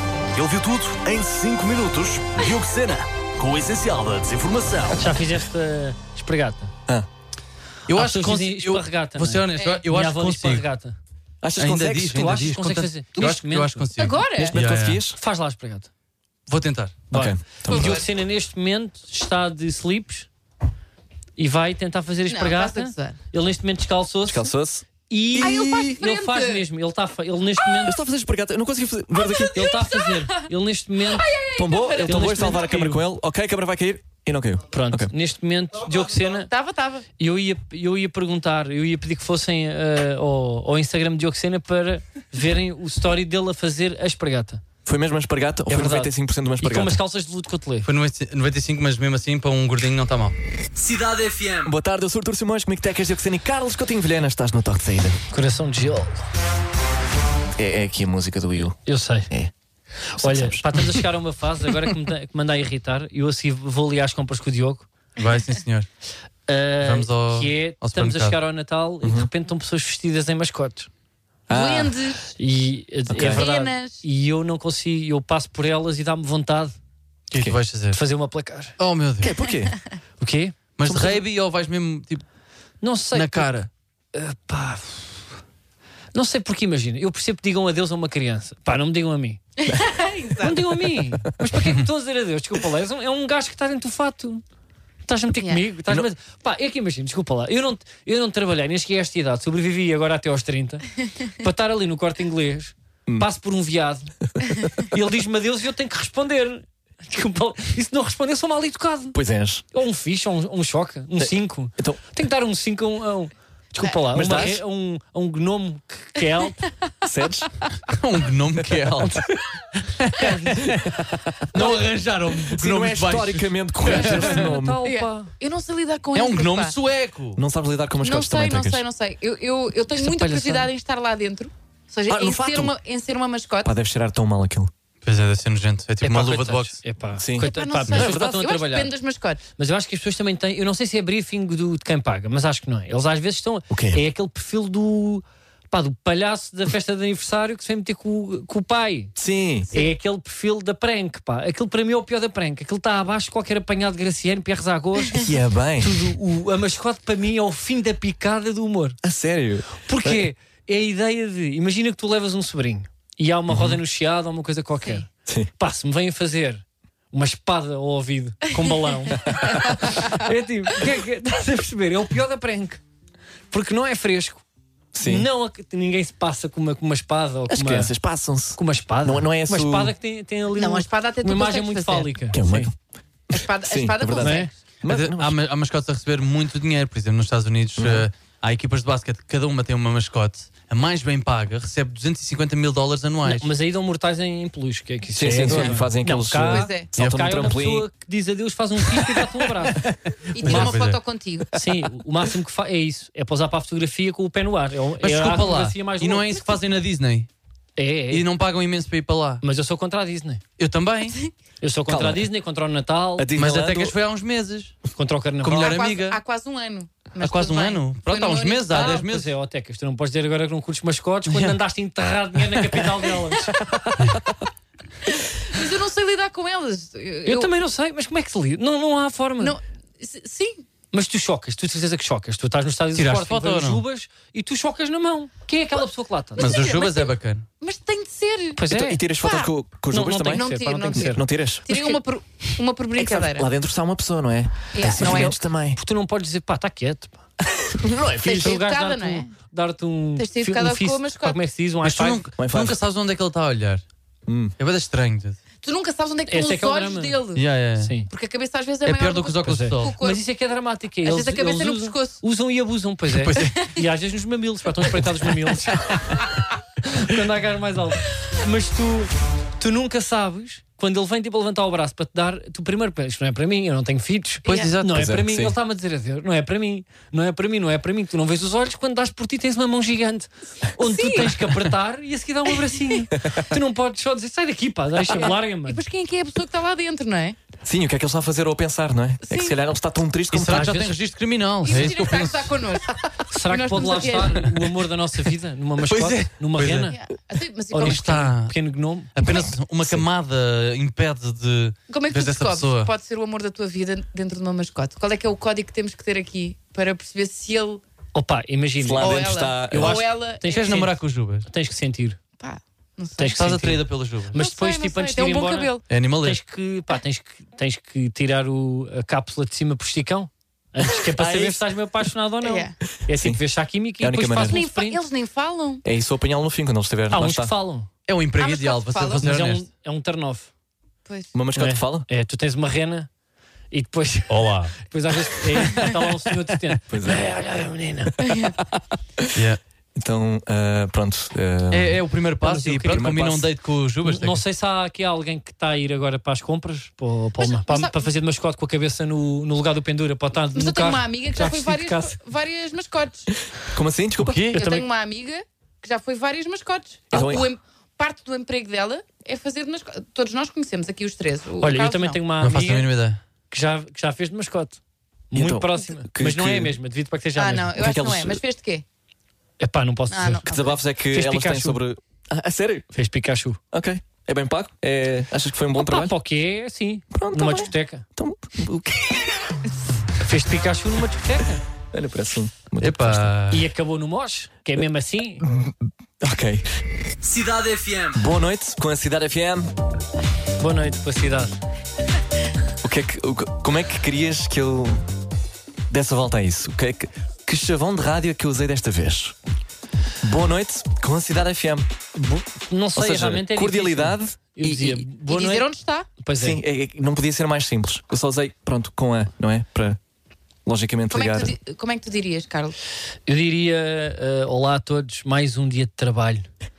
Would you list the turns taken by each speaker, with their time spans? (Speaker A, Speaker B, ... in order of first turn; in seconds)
Speaker A: 0.3-5.1, 50.8-51.7, 387.2-388.2
Speaker B: 5.0-6.7, 7.9-11.0, 12.1-13.9, 15.1-15.9, 17.1-20.3, 21.4-24.5, 25.1-28.0, 29.5-31.4, 32.0-33.0, 34.7-36.5, 37.2-44.6, 45.7-47.9, 55.3-56.2, 58.9-59.3, 60.2-64.9, 66.5-70.9, 72.4-76.8, 77.9-78.8, 80.2-80.6, 82.8-83.5, 84.1-85.2, 86.1-89.4, 90.4-94.4, 95.1-100.9, 101.4-104.1, 104.8-109.2, 109.7-116.6, 120.1-120.9, 123.8-125.3, 130.0-130.7, 136.0-138.9, 139.6-149.1, 149.7-159.0, 159.8-165.1, 165.6-172.8, 173.5-174.4, 175.0-177.9, 178.6-182.7, 184.2-184.5, 193.2-199.8, 200.4-200.7, 201.5-206.5, 207.8-208.3, 209.4-210.4, 211.6-213.3, 214.9-215.8, 218.7-224.2, 227.2-229.6, 230.9-236.6, 238.6-239.0, 239.9-242.0, 244.8-247.2, 248.3-252.2, 256.3-257.2, 257.8-258.1, 259.4-265.9, 266.8-285.8, 290.5-290.9, 293.3-297.0, 297.7-299.2, 308.1-312.2, 313.2-325.0, 327.1-327.9, 329.2-330.5, 331.6-333.1, 333.7-338.2, 342.4-343.1, 344.1-352.2, 354.6-354.8, 361.6-362.9, 363.5-364.8, 365.3-367.8, 369.6-370.5, 371.1-371.8, 372.9-373.6, 375.8-378.1, 380.2-381.6, 383.5-385.5, 390.6-391.6, 402.1-405.7, 406.2-406.6, 413.3-416.5
Speaker C: 7.9-10.7, 11.6-15.0, 16.5-17.0, 47.9-50.4, 65.2-65.9, 66.8-68.4, 77.3-78.0, 78.8-79.3, 80.8-82.2, 83.1-83.7, 117.8-120.9, 121.5-124.4, 126.1-127.4, 135.0-136.8, 184.9-193.5, 199.8-201.0, 205.0-207.3, 208.1-209.4, 210.6-211.2, 213.3-214.8, 215.4-216.2, 217.2-219.3, 221.3-221.6, 232.9-233.8, 236.4-237.5, 251.8-253.8, 254.6-255.4, 257.3-257.9, 258.9-259.9, 263.1-263.6, 274.4-275.1, 290.3-292.6, 293.9-294.5, 295.9-297.0, 297.8-298.5, 299.2-302.9, 310.5-311.5, 313.4-314.4, 315.9-316.4, 328.1-329.7, 334.3-334.8, 339.3-339.6, 341.7-344.4, 354.2-354.6, 362.4-363.2, 382.8-383.7
Speaker D: 9.6-9.8, 14.0-14.6, 17.7-18.1, 22.3-23.2, 25.3-26.7, 29.3-30.2, 31.1-32.6, 36.5-37.1, 71.5-72.3, 73.2-74.0, 89.6-90.6, 95.4-95.6, 124.8-126.7, 128.0-133.7, 137.4-139.4, 180.6-182.1, 183.3-184.5, 196.4-196.9, 200.3-201.5, 215.6-219.0, 225.1-227.5, 229.4-230.7, 236.4-238.6, 239.2-239.5, 240.3-243.5, 244.7-245.4, 248.2-249.3, 250.2-251.4, 255.6-257.4, 258.1-260.2, 261.0-262.2, 274.5-274.7, 280.8-281.3, 285.1-287.4, 289.3-289.6, 291.6-292.9, 293.5-294.5, 296.9-298.1, 301.9-307.8, 309.0-310.8, 312.4-313.4, 314.3-315.8, 322.4-322.8, 324.5-325.8, 328.4-329.2, 331.1-331.4, 338.2-338.6, 347.4-348.1, 350.5-353.3, 354.6-362.2, 367.4-368.9, 370.1-370.8, 405.3-406.1, 411.1-412.8
Speaker E: 11.4-12.5, 14.3-15.2, 17.1-18.1, 24.3-26.0, 27.8-29.7, 31.5-35.1, 44.9-47.0, 51.7-55.2, 57.6-58.8, 60.1-61.0, 69.0-69.3, 71.5-72.0, 73.1-73.4, 79.2-79.8, 80.8-81.2, 109.1-109.7, 111.2-112.0, 114.1-114.6, 117.0-117.5, 118.9-119.2, 120.6-124.8, 127.3-128.8, 130.0-130.7, 132.1-132.8, 133.6-134.7, 137.2-138.5, 143.7-144.0, 149.2-149.7, 155.1-156.1, 159.0-160.2, 163.5-163.8, 169.2-169.6, 174.9-175.3, 177.5-179.9, 182.3-182.8, 183.6-185.3, 187.8-188.1, 195.2-197.9, 211.9-212.3, 213.2-213.9, 238.7-241.7, 243.0-245.8, 247.5-248.6, 252.4-252.8, 254.3-254.5, 274.9-275.6, 283.2-283.5, 287.6-290.9, 308.8-310.1, 321.1-321.6, 323.1-323.4, 324.0-324.6, 325.8-327.5, 331.3-332.1, 336.9-337.3, 340.0-342.0, 342.8-343.5, 353.6-354.5, 357.1-357.5, 365.4-366.8, 367.7-368.4, 370.5-372.9, 373.7-376.1, 377.1-379.3, 381.9-383.3, 385.4-386.7, 388.1-389.7, 392.8-395.0, 395.9-399.4, 400.2-401.9, 403.0-405.1, 406.4-410.0, 410.6-411.5